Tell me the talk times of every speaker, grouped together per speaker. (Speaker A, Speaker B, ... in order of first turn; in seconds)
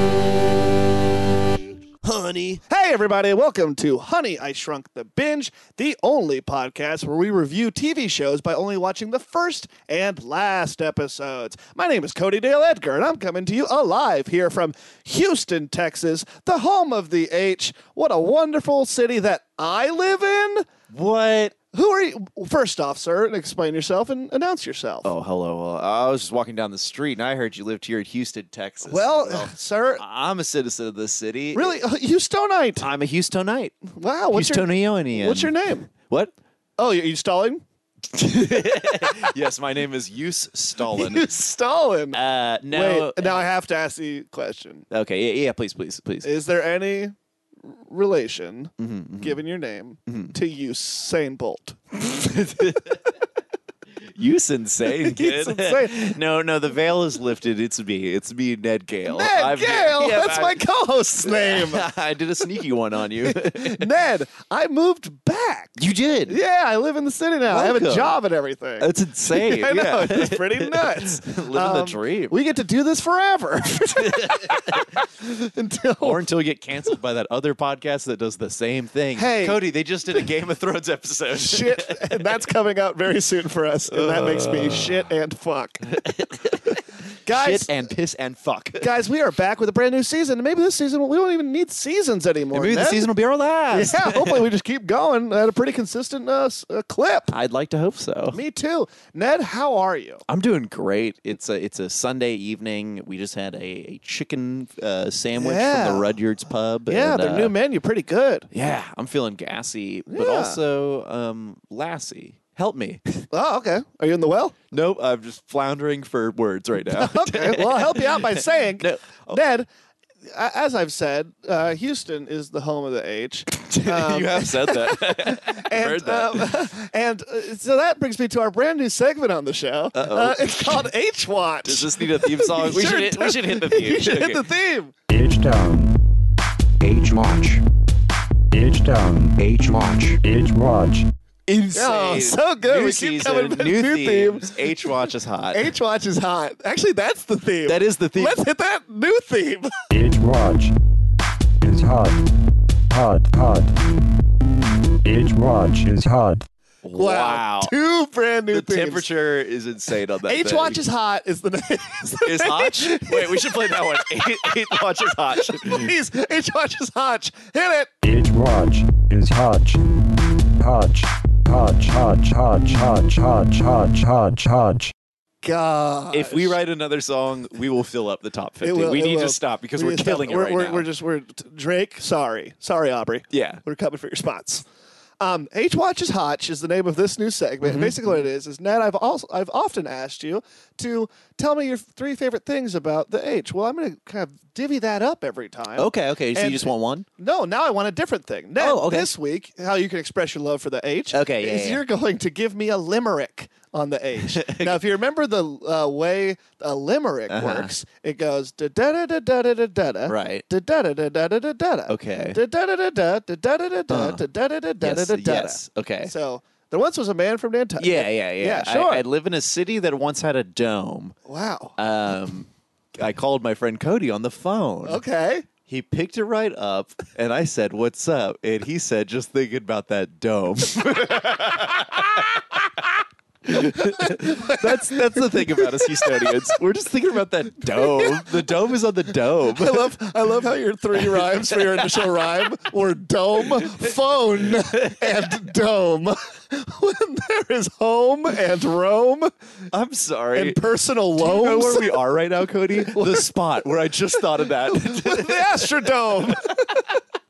Speaker A: 2.1-2.5, 20.9-21.6, 25.0-31.8, 32.8-36.3, 38.1-41.3, 42.1-43.4, 44.9-46.3, 48.8-49.4, 50.1-50.3, 51.9-53.0, 54.1-60.6, 61.2-63.9, 65.8-66.4, 67.5-68.2, 68.8-72.3, 73.9-74.8, 76.0-82.2, 83.9-85.1, 85.8-88.9, 92.5-94.5, 97.3-98.4, 100.3-107.5, 108.5-113.0, 114.7-119.4, 123.5-126.6, 129.9-130.9, 131.6-134.4, 139.5-140.1, 141.5-145.7, 147.7-148.4, 156.8-157.7, 158.5-160.8, 162.2-165.9, 176.1-180.9, 183.3-183.6, 187.6-188.1, 195.8-197.1, 198.6-199.1, 201.1-201.8, 204.2-204.8, 207.3-207.7, 210.1-210.4, 211.9-212.4, 213.9-214.2, 214.8-216.1, 217.8-221.2, 221.8-225.0, 225.7-232.9, 233.4-239.9, 241.0-242.3, 243.4-243.8, 244.5-245.1, 249.7-250.6, 251.2-255.7
Speaker B: 2.7-20.7, 21.7-25.1, 28.9-30.0, 31.5-32.9, 33.9-35.9, 36.8-37.6, 40.8-42.2, 42.7-44.9, 46.2-51.8, 54.9-56.0, 59.0-61.9, 63.2-65.8, 66.3-76.2, 79.2-79.6, 81.3-85.9, 87.2-87.7, 88.8-93.1, 93.7-97.3, 98.3-100.2, 105.3-106.1, 106.9-108.5, 110.1-110.6, 113.3-114.6, 116.9-119.7, 120.3-134.9, 141.7-144.7, 145.5-149.7, 156.9-159.1, 160.2-164.6, 165.4-167.9, 175.4-176.5, 178.6-184.7, 185.2-219.0, 221.2-221.8, 224.8-225.4, 233.6-236.4, 237.7-238.2, 239.5-249.3, 250.3-252.0, 252.8-253.3, 254.4-256.9
Speaker C: 135.1-135.9, 136.8-137.6, 138.5-141.1, 149.9-150.7, 151.6-152.3, 152.9-153.8, 155.0-156.4, 168.0-169.8, 170.5-174.9